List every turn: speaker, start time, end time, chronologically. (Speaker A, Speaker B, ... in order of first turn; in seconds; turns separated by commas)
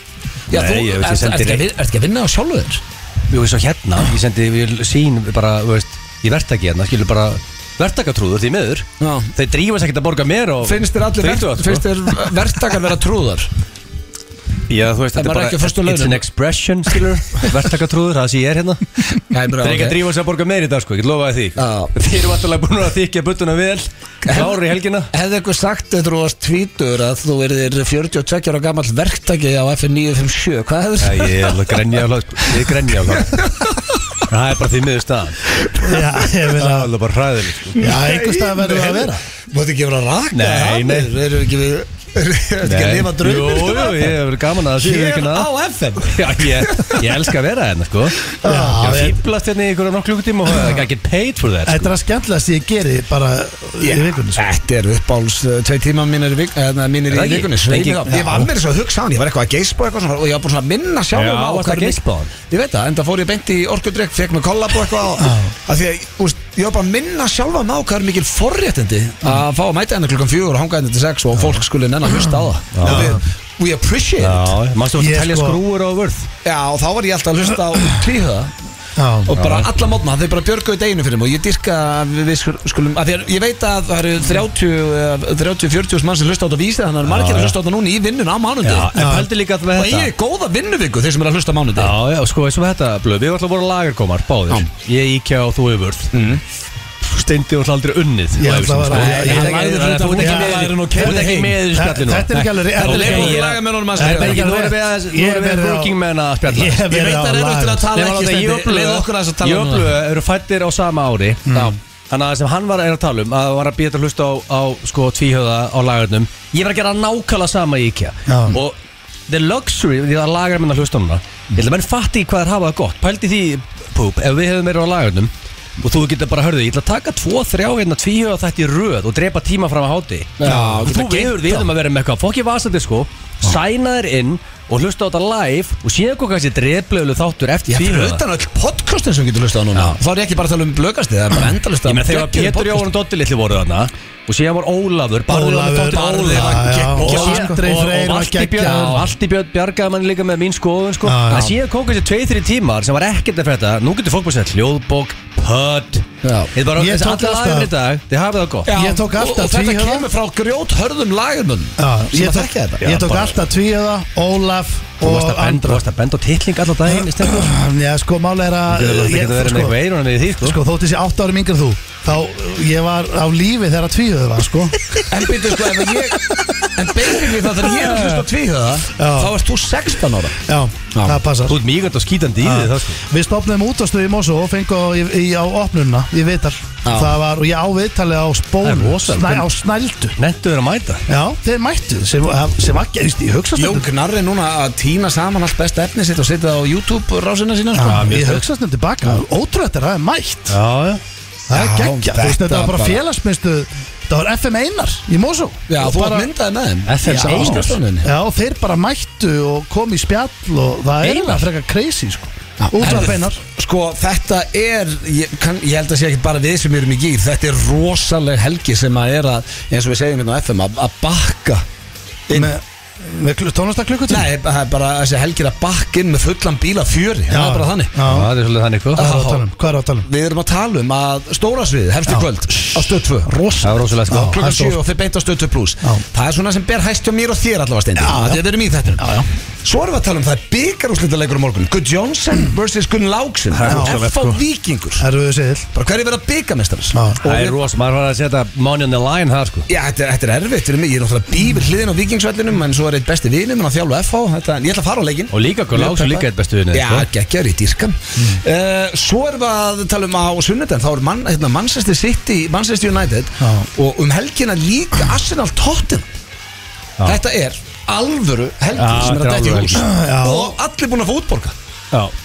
Speaker A: 0.5-2.8, Speaker B: 0.5-1.7, Speaker B: 3.3-11.9, Speaker A: 9.0-9.3, Speaker A: 10.6-13.5, Speaker B: 14.7-19.1, Speaker A: 15.2-16.2, Speaker A: 19.2-20.0, Speaker B: 19.6-25.1, Speaker A: 21.6-21.9, Speaker A: 24.2-31.8, Speaker B: 31.0-33.5, Speaker A: 33.2-33.8, Speaker B: 34.3-35.4, Speaker C: 35.8-36.9, Speaker B: 36.5-37.9, Speaker C: 37.8-39.2, Speaker A: 37.8-44.2, Speaker B: 40.3-41.1, Speaker B: 42.6-45.5, Speaker A: 44.8-47.0, Speaker B: 46.1-51.9, Speaker C: 48.4-49.2, Speaker C: 50.5-50.8, Speaker C: 51.7-54.4, Speaker A: 53.8-74.5, Speaker B: 57.1-58.1, Speaker C: 58.1-58.5, Speaker B: 61.1-62.3, Speaker C: 65.2-65.5, Speaker B: 72.8-73.2, Speaker C: 72.8-73.2, Speaker B: 74.2-76.3, Speaker C: 75.0-75.6, Speaker A: 76.4-78.5, Speaker C: 79.0-79.3, Speaker A: 79.3-88.9, Speaker B: 79.4-79.7, Speaker B: 87.1-87.6, Speaker B: 88.6-90.1, Speaker C: 88.9-89.3, Speaker A: 89.8-91.9, Speaker B: 91.8-96.1, Speaker A: 96.1-96.4, Speaker B: 97.0-106.8, Speaker C: 98.4-99.7, Speaker A: 98.9-101.5, Speaker C: 100.2-107.9, Speaker A: 102.3-104.5, Speaker A: 106.9-109.9, Speaker B: 107.9-111.5, Speaker C: 111.5-111.8, Speaker B: 112.1-118.8, Speaker C: 118.3-118.6, Speaker B: 119.3-138.2, Speaker A: 130.4-131.7, Speaker C: 130.5-130.8, Speaker A: 137.7-142.9, Speaker B: 141.8-158.7, Speaker C: 145.3-149.1, Speaker A: 145.9-147.6, Speaker C: 151.0-151.6, Speaker A: 156.2-156.5, Speaker C: 156.7-157.7, Speaker A: 158.7-163.1, Speaker C: 158.7-160.1, Speaker C: 161.8-165.8, Speaker B: 162.8-163.3, Speaker B: 165.0-167.5, Speaker C: 166.8-169.8, Speaker B: 168.7-170.6, Speaker C: 170.4-174.8, Speaker A: 175.1-176.2, Speaker A: 176.8-180.4, Speaker B: 177.8-178.2, Speaker C: 179.0-179.3, Speaker C: 180.4-181.6, Speaker A: 180.9-181.2, Speaker B: 181.5-183.0, Speaker C: 182.4-190.2, Speaker A: 186.8-187.2, Speaker B: 188.6-189.5, Speaker B: 190.2-191.0, Speaker C: 191.1-193.9, Speaker A: 193.6-198.2, Speaker C: 197.7-200.6, Speaker B: 197.8-198.4, Speaker B: 200.5-201.0, Speaker C: 201.5-206.3, Speaker A: 201.5-203.0, Speaker A: 205.7-208.1, Speaker B: 206.9-207.8, Speaker C: 207.1-213.4, Speaker B: 211.0-211.4, Speaker A: 212.6-221.7, Speaker A: 222.3-222.5, Speaker C: 222.3-224.3, Speaker A: 224.1-227.9, Speaker C: 227.3-228.3, Speaker B: 228.1-229.0, Speaker A: 229.0-229.4, Speaker C: 229.0-230.1, Speaker A: 230.0-233.3, Speaker C: 232.1-234.8, Speaker B: 233.6-234.6, Speaker A: 234.2-239.1, Speaker C: 238.0-238.4, Speaker C: 239.0-239.3, Speaker A: 239.6-245.0, Speaker B: 243.5-244.4, Speaker C: 243.7-244.0, Speaker C: 245.0-245.7, Speaker A: 245.7-247.6, Speaker C: 246.9-247.2, Speaker B: 247.2-249.7, Speaker A: 249.7-266.1, Speaker B: 255.3-257.1, Speaker C: 263.4-263.7, Speaker A: 267.0-271.6, Speaker B: 268.8-269.9, Speaker C: 269.8-270.6